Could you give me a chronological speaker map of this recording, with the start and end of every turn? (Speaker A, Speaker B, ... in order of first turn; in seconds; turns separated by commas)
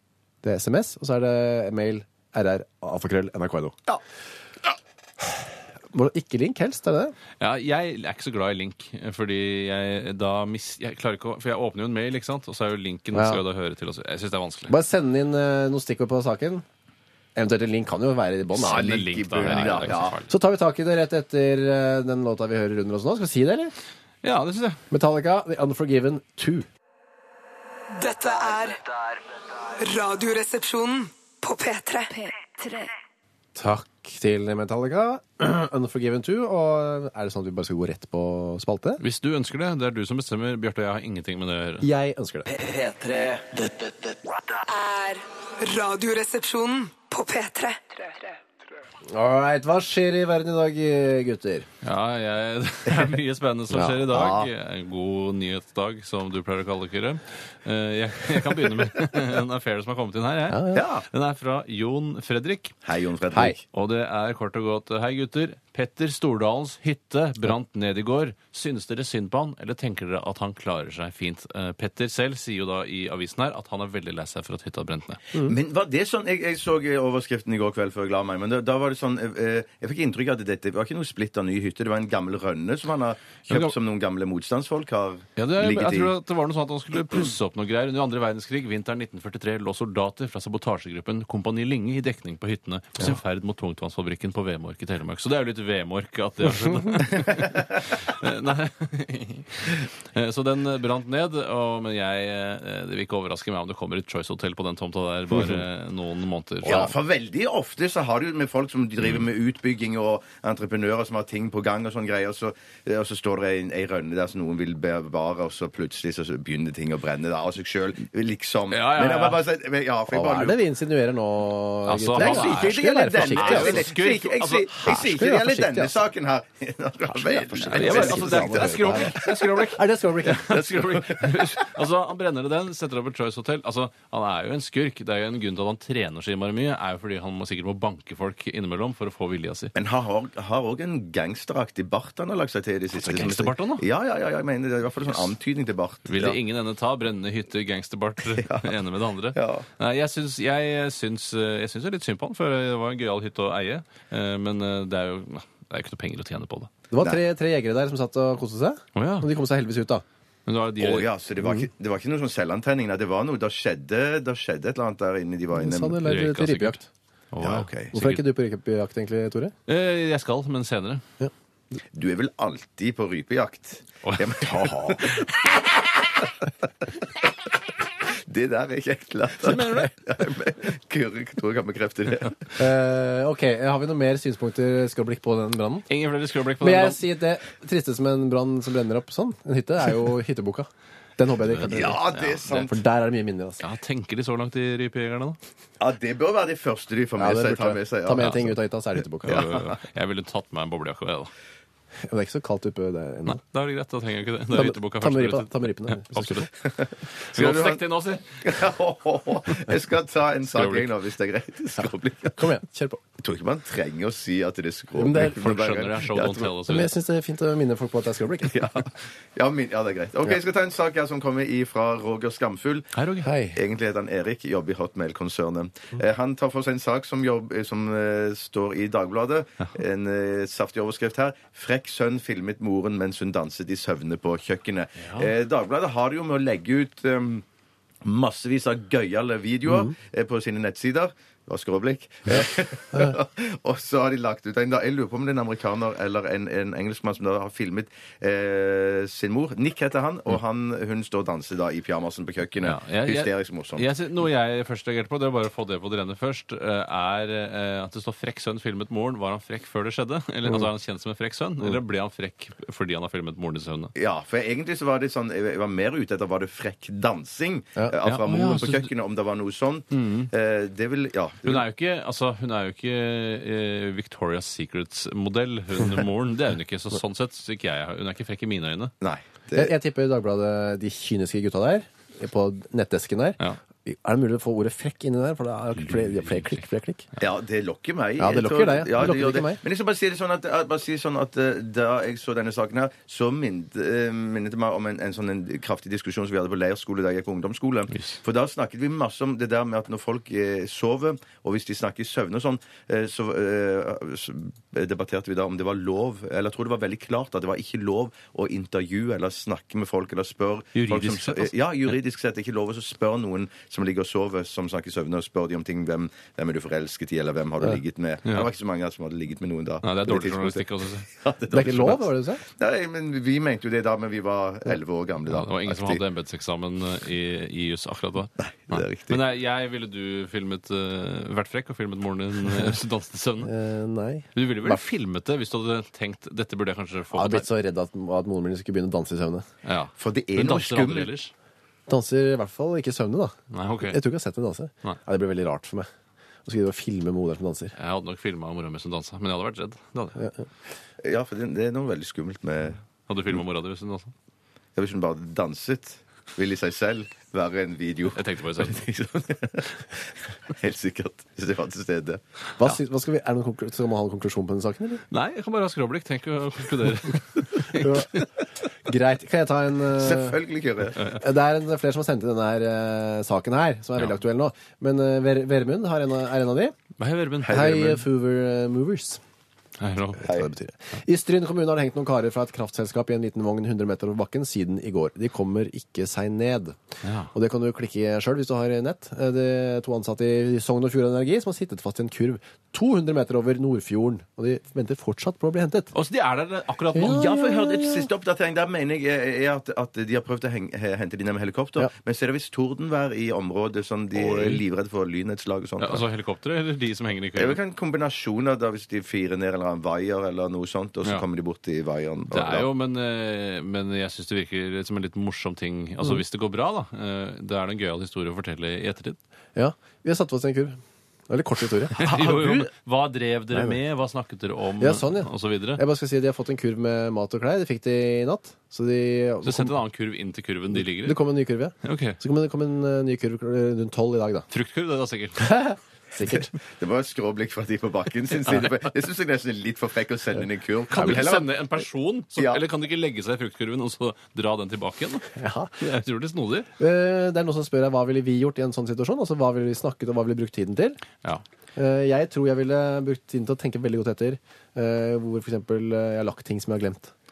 Speaker A: 0.4-3.8, Speaker A: 5.9-7.1, Speaker B: 7.4-14.7, Speaker A: 13.1-13.4, Speaker A: 14.7-16.6, Speaker A: 17.4-23.7, Speaker B: 18.5-20.3, Speaker C: 18.6-20.2, Speaker B: 24.2-24.8, Speaker A: 24.9-26.6, Speaker D: 27.9-28.9, Speaker D: 29.6-32.9, Speaker A: 33.5-39.0, Speaker B: 39.0-41.9, Speaker A: 41.8-42.6, Speaker D: 42.7-43.6, Speaker D: 44.6-48.1, Speaker A: 49.1-51.7, Speaker B: 51.8-62.7, Speaker A: 53.7-54.0, Speaker C: 54.1-54.5, Speaker A: 60.5-60.8, Speaker C: 60.7-61.0, Speaker C: 62.8-63.6, Speaker B: 63.6-75.2, Speaker C: 75.4-86.1, Speaker B: 83.5-83.7, Speaker B: 85.4-106.9, Speaker C: 106.6-120.6, Speaker B: 118.7-119.4, Speaker A: 120.1-123.9, Speaker B: 121.9-124.7, Speaker C: 122.2-129.6, Speaker A: 124.7-126.0, Speaker A: 127.1-130.5, Speaker B: 127.7-139.7, Speaker C: 130.3-131.7, Speaker C: 139.7-146.4, Speaker B: 142.9-143.8, Speaker B: 146.1-156.7, Speaker C: 148.4-148.7, Speaker C: 149.3-149.7, Speaker A: 156.9-160.0, Speaker B: 158.9-159.3, Speaker B: 160.4-161.1, Speaker C: 160.8-166.0, Speaker A: 161.4-161.7, Speaker A: 165.5-166.8, Speaker B: 166.0-166.8, Speaker B: 167.3-168.2, Speaker C: 167.4-167.9, Speaker A: 167.9-169.5, Speaker B: 169.7-171.0, Speaker C: 171.9-176.3, Speaker B: 174.0-174.7, Speaker A: 174.5-175.0, Speaker C: 178.1-182.6, Speaker B: 179.4-179.9, Speaker A: 182.6-185.9, Speaker B: 185.9-187.0, Speaker A: 186.6-193.6, Speaker B: 191.4-192.7, Speaker C: 191.7-192.7, Speaker B: 193.6-195.4, Speaker C: 195.8-198.4, Speaker A: 197.2-199.5, Speaker B: 198.2-198.5, Speaker B: 199.2-201.3, Speaker C: 199.3-199.7, Speaker A: 202.0-203.4, Speaker B: 203.3-206.5, Speaker A: 204.5-206.5, Speaker C: 206.6-207.8, Speaker B: 207.3-208.6, Speaker C: 208.4-212.5, Speaker B: 210.5-210.9, Speaker A: 212.4-213.0, Speaker C: 213.2-216.5, Speaker A: 215.0-215.4, Speaker B: 215.1-216.9, Speaker A: 216.7-218.7, Speaker C: 218.4-222.9, Speaker B: 222.9-223.3, Speaker A: 223.2-223.6, Speaker C: 223.5-237.4, Speaker B: 235.0-235.3, Speaker C: 238.0-253.9, Speaker B: 252.6-263.9, Speaker C: 263.9-271.6, Speaker B: 268.0-268.9, Speaker B: 269.9-270.3, Speaker B: 271.4-278.9, Speaker C: 279.0-279.7, Speaker A: 279.5-287.1, Speaker C: 287.2-326.0, Speaker A: 288.2-289.6, Speaker B: 297.9-298.2, Speaker B: 310.7-311.5, Speaker B: 319.8-321.1, Speaker A: 321.5-322.4, Speaker B: 325.3-333.5, Speaker C: 328.4-329.2, Speaker A: 333.4-334.8, Speaker B: 334.3-337.4, Speaker A: 337.1-339.4, Speaker B: 339.6-341.3, Speaker C: 340.0-341.1, Speaker A: 341.9-345.9, Speaker B: 343.5-344.0, Speaker A: 346.4-347.7, Speaker B: 347.8-350.2, Speaker C: 351.0-352.8, Speaker B: 353.1-354.1, Speaker C: 354.8-359.8, Speaker B: 358.1-358.9, Speaker C: 360.5-362.2, Speaker A: 362.6-365.0, Speaker B: 365.1-368.3, Speaker A: 367.7-368.2, Speaker A: 368.8-370.4, Speaker C: 370.0-371.1, Speaker A: 371.1-376.7, Speaker B: 377.0-378.0, Speaker A: 377.4-379.2, Speaker C: 377.4-377.9, Speaker B: 379.8-380.3, Speaker A: 380.2-386.8, Speaker B: 387.0-387.3, Speaker A: 387.3-395.9, Speaker B: 395.9-397.3, Speaker A: 396.9-398.1, Speaker C: 397.0-406.0, Speaker B: 404.1-404.6, Speaker B: 405.8-407.6, Speaker C: 407.3-412.7, Speaker B: 412.3-419.2, Speaker A: 419.6-422.0, Speaker B: 421.9-425.8, Speaker C: 422.0-422.7, Speaker A: 424.8-429.7, Speaker B: 429.4-431.2, Speaker A: 430.8-434.5, Speaker B: 431.8-432.2, Speaker B: 434.5-435.7, Speaker A: 435.4-436.5, Speaker C: 436.7-441.7, Speaker B: 440.9-446.7, Speaker C: 442.4-442.6, Speaker A: 445.4-445.7, Speaker A: 446.8-451.0, Speaker A: 451.8-457.1